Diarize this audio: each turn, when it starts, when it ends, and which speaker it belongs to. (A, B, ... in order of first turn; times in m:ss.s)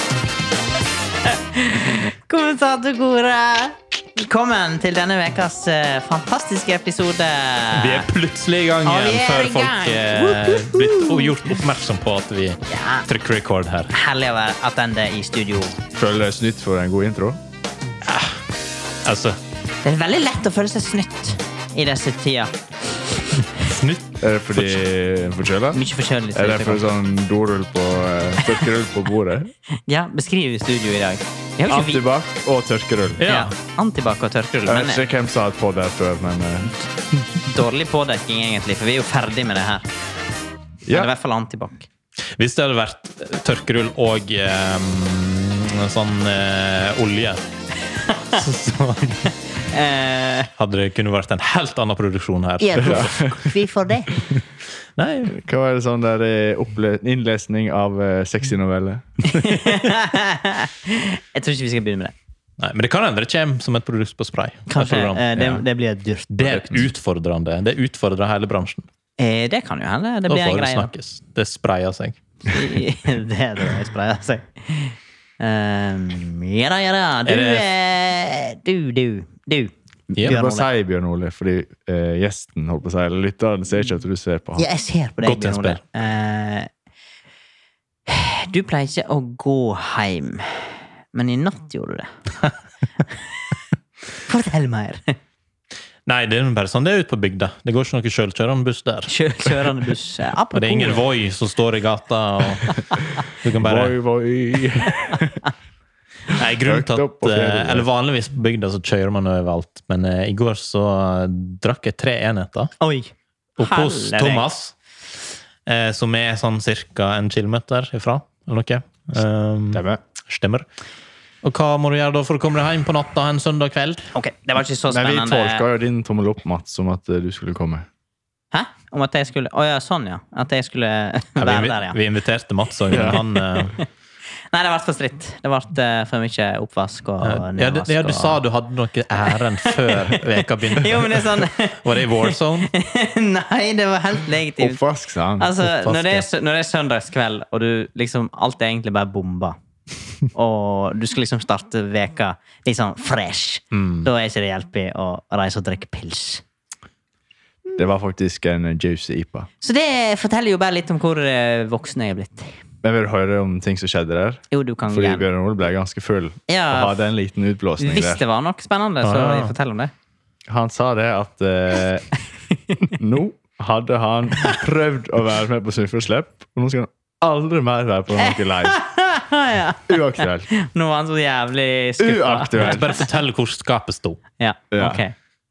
0:01.2-0:08.1 A
0:07.7-0:13.9 B
0:08.8-0:11.6 A
0:12.7-0:13.0 A
0:13.9-0:15.8 A
0:15.9-0:17.4 C
0:18.0-0:18.4 B
0:19.0-0:19.4 B
0:19.8-0:23.5 A
0:23.4-0:24.8 B
0:24.2-0:25.8 C
0:25.7-0:26.9 A
0:26.3-0:29.5 C
0:29.9-0:32.0 A
0:31.7-0:33.2 C
0:33.2-0:33.5 B
0:33.2-0:35.0 A
0:34.7-0:36.7 C
0:37.4-0:39.9 A
0:40.9-0:41.1 C
0:40.9-0:41.9 A
0:42.4-0:47.4 B
0:48.0-0:48.4 A
0:48.3-0:49.3 B
0:49.7-0:50.5 A
0:50.6-0:53.5 B
0:52.6-0:54.1 A
0:52.8-0:53.4 C
0:55.0-0:55.4 B
0:55.3-0:59.1 C
0:59.2-1:02.1 A
1:02.6-1:05.6 B
1:04.7-1:06.8 A
1:06.3-1:08.9 B
1:09.2-1:10.9 A
1:10.3-1:12.2 B
1:12.4-1:20.7 A
1:17.3-1:17.6 B
1:20.2-1:24.7 C
1:24.6-1:26.7 A
1:25.2-1:25.8 B
1:28.1-1:32.1 A
1:34.2-1:35.2 A
1:36.1-1:39.7 B
1:39.1-1:41.0 A
1:40.5-1:44.0 B
1:43.6-1:45.4 C
1:46.3-1:52.7 B
1:46.6-1:47.9 C
1:52.8-1:54.4 A
1:53.6-1:54.7 B
1:55.7-2:00.7 B
1:59.7-2:00.0 C
2:01.4-2:04.1 B
2:04.1-2:05.7 A
2:04.9-2:07.9 C
2:08.5-2:12.0 A
2:11.4-2:13.8 B
2:12.9-2:13.2 C
2:12.9-2:13.8 A
2:14.5-2:18.4 A
2:17.2-2:22.7 B
2:19.3-2:24.8 A
2:24.6-2:25.7 C
2:25.4-2:29.6 A
2:25.6-2:26.2 B
2:30.3-2:36.4 A
2:33.7-2:34.1 B
2:37.8-2:39.5 C
2:39.6-2:42.6 A
2:42.8-2:48.2 C
2:44.5-2:45.2 A
2:46.5-2:47.0 A
2:47.8-2:49.9 A
2:49.0-2:49.5 B
2:50.5-2:52.1 C
2:52.9-2:58.8 C
2:58.2-3:02.9 A
2:59.9-3:00.5 C
3:02.0-3:02.9 C
3:02.6-3:04.2 B
3:04.4-3:05.1 A
3:04.7-3:05.0 C